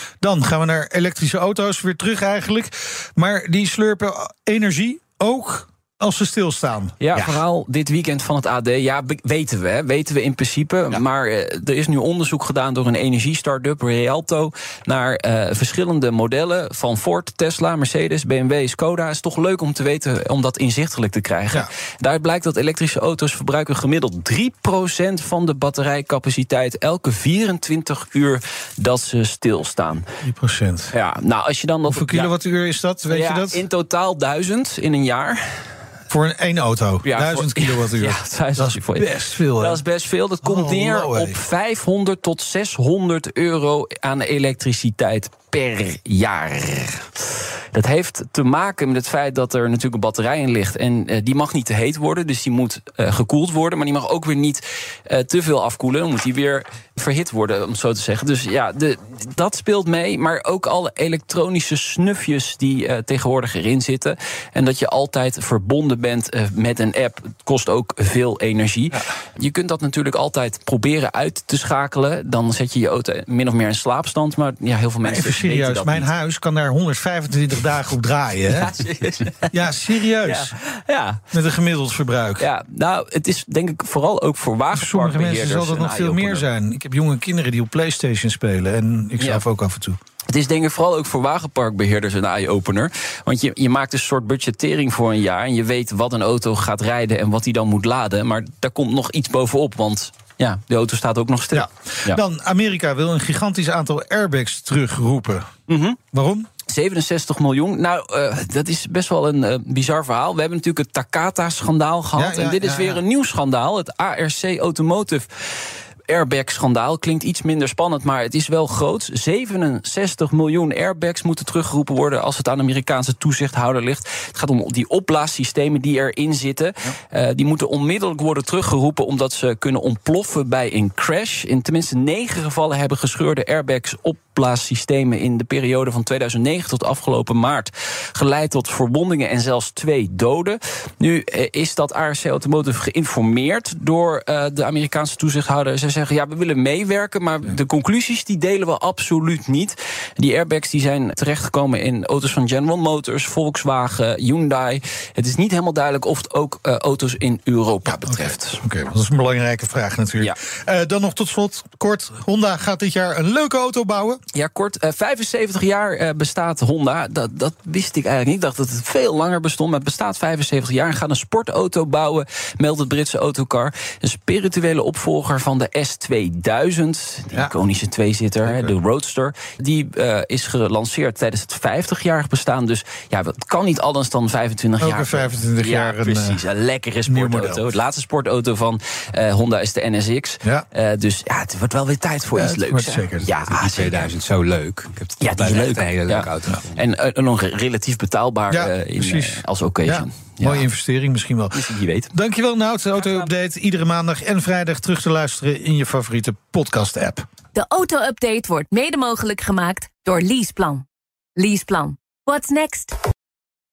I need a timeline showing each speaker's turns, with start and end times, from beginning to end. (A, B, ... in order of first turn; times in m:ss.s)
0:00.2-0:07.0 A
0:07.0-0:30.0 B
0:30.2-0:30.9 A
0:30.9-0:32.3 B
0:31.9-0:33.6 A
0:33.1-0:35.7 B
0:36.1-0:39.8 A
0:37.0-1:16.1 B
0:40.4-0:41.4 A
1:15.0-1:18.7 A
1:18.5-1:19.6 B
1:19.5-1:20.6 A
1:20.2-1:21.2 B
1:21.3-1:22.5 A
1:22.4-1:26.5 B
1:24.7-1:30.0 A
1:29.2-1:29.4 B
1:30.3-1:42.2 B
1:41.5-1:45.5 A
1:45.7-1:46.0 B
1:46.1-1:46.5 A
1:46.7-2:38.6 B
1:52.2-1:53.0 A
2:38.0-2:44.2 A
2:44.3-3:14.1 B
2:58.4-2:58.8 A
3:04.8-3:06.4 A
3:07.1-3:07.6 A
3:12.3-3:13.3 A
3:13.4-3:16.7 C
3:15.2-3:20.7 B
3:18.5-3:27.2 A
3:21.5-3:22.1 B
3:22.9-3:23.3 B
3:27.6-3:30.8 D
3:31.4-3:32.9 D